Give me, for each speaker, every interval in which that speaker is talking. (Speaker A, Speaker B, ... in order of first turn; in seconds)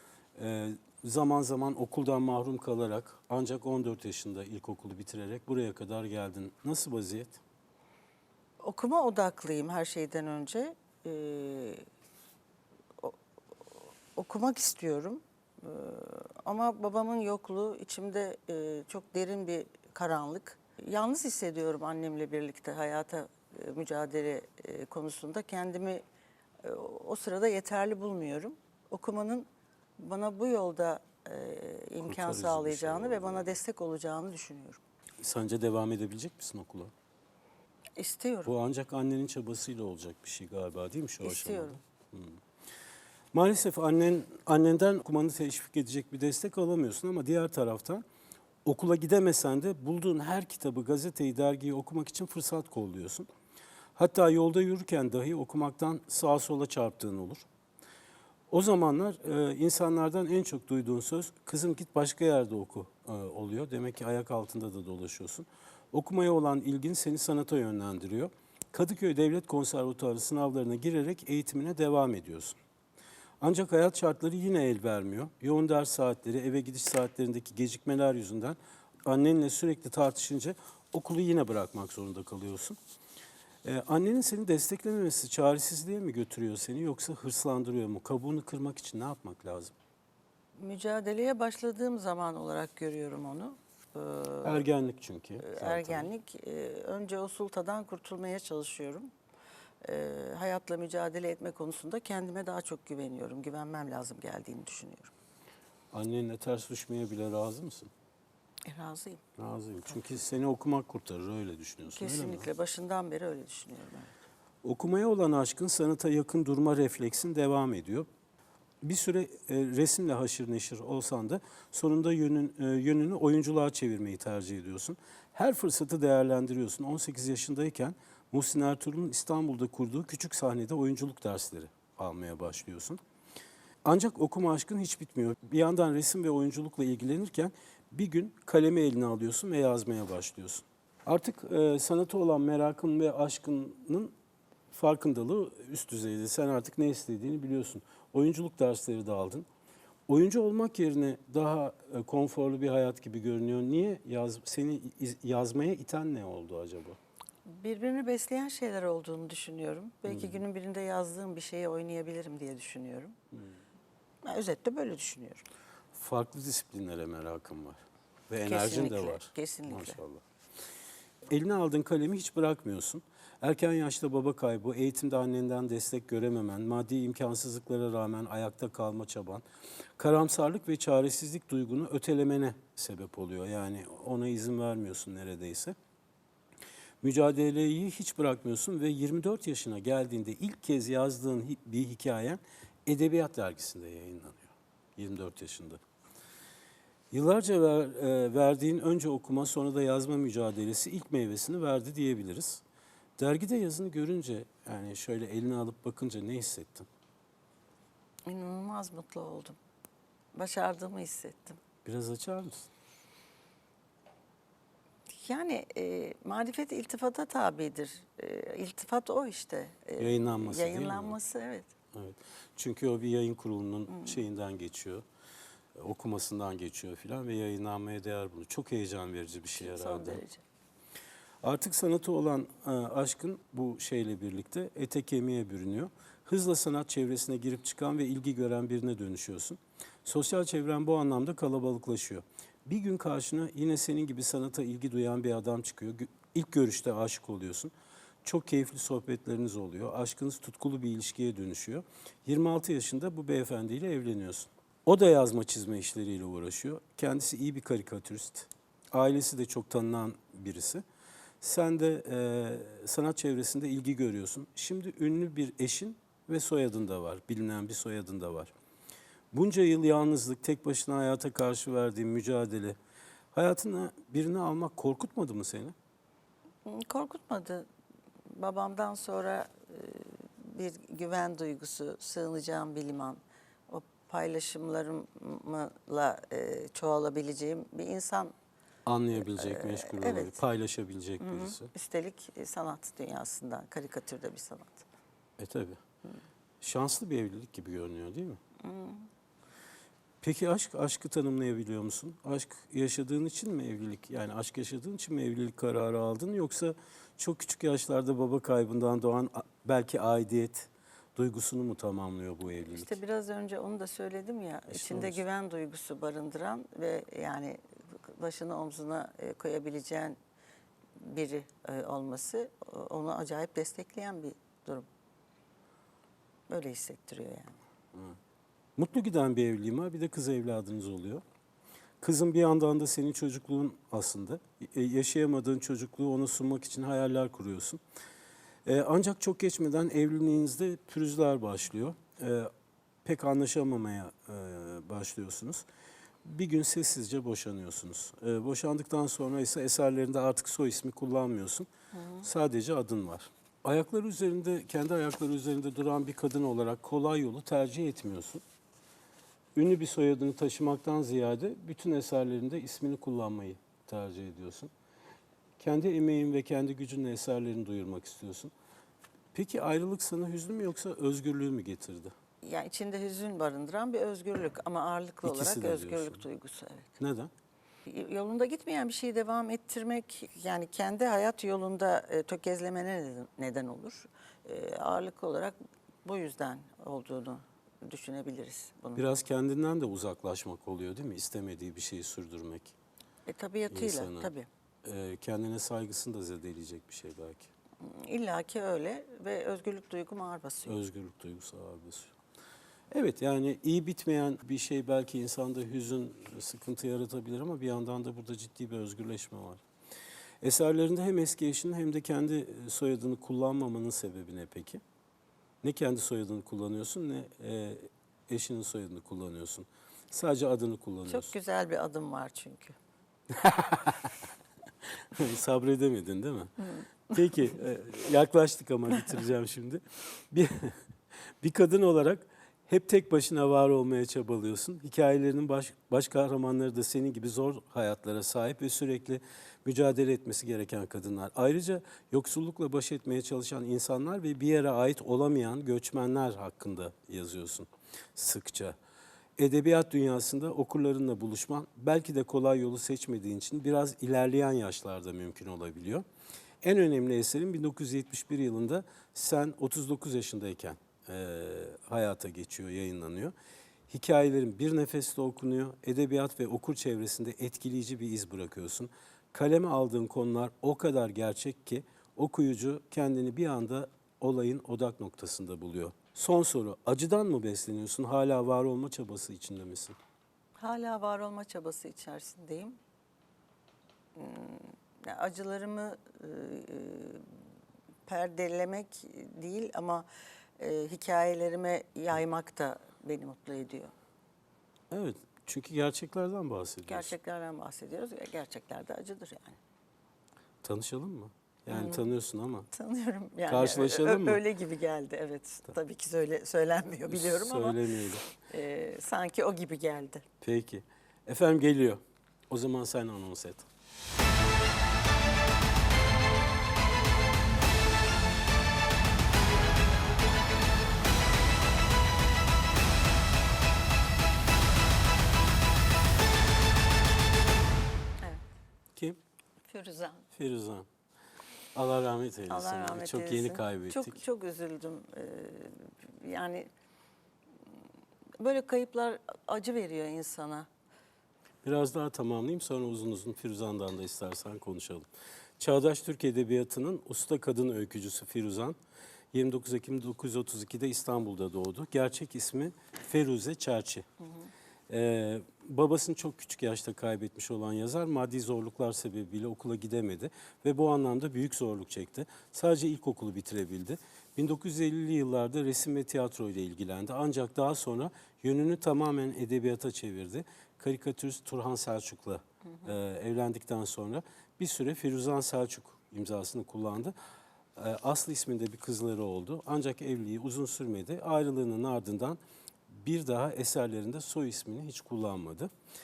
Speaker A: 0.4-7.4, 32.0-33.6, 35.2-36.9, 38.5-42.4, 43.3-48.0, 48.6-53.3, 54.0-57.5, 58.5-72.6, 73.4-82.8, 83.6-89.7, 94.4-96.1, 105.9-107.9, 109.4-112.5, 114.6-118.1, 118.8-133.0, 133.8-144.1, 144.7-149.5, 150.1-157.0, 160.1-160.4, 165.9-170.2, 171.3-179.4, 180.0-185.8, 187.0-195.8, 197.1-202.6, 203.2-206.9, 211.8-212.7, 220.0-221.2, 221.9-225.1, 225.8-230.2, 231.4-247.7, 248.2-260.8, 261.4-268.5, 269.3-272.8, 273.3-275.8, 288.9-291.7, 295.4-295.8, 296.6-298.4, 300.2-313.0, 314.7-315.2, 328.8-331.2, 332.0-337.8, 338.7-342.5, 343.0-345.6, 346.2-351.7, 352.2-358.4, 359.6-364.7, 365.6-368.5, 369.3-372.1, 375.2-376.2, 377.0-377.3, 389.0-392.8, 393.7-394.3, 394.8-397.5, 400.7-402.2, 402.9-409.6, 410.4-414.8, 415.6-421.3, 423.4-424.1, 425.1-430.8, 431.4-448.8, 449.4-456.1, 456.6-463.3, 463.9-480.0, 494.9-497.1, 500.6-502.7, 503.5-504.4, 507.1-508.3, 510.4-513.7, 530.3-530.9, 531.8-534.2, 541.6-545.1, 545.6-548.8, 549.3-554.1, 554.9-577.1, 577.8-585.7
Speaker B: 8.6-11.8, 13.7-26.0, 26.6-29.5, 30.0-34.8, 38.0-38.5, 41.2-41.8, 90.6-94.7, 95.4-99.1, 99.8-105.1, 108.7-109.2, 111.9-114.1, 157.5-163.2, 164.2-165.4, 168.5-170.0, 208.3-209.6, 210.3-211.6, 215.1-221.7, 223.9-224.2, 229.6-230.4, 276.6-277.7, 278.3-288.3, 289.1-290.4, 291.2-294.9, 298.6-299.1, 312.5-320.2, 321.0-324.9, 326.5-327.6, 351.9-352.2, 372.4-377.0, 377.9-389.1, 393.3-394.5, 397.8-400.8, 421.1-422.8, 480.6-482.8, 484.1-487.3, 488.1-490.1, 490.6-493.9, 496.9-499.6, 501.7-502.0, 502.7-510.2, 529.6-530.3, 532.5-536.7, 538.4-540.7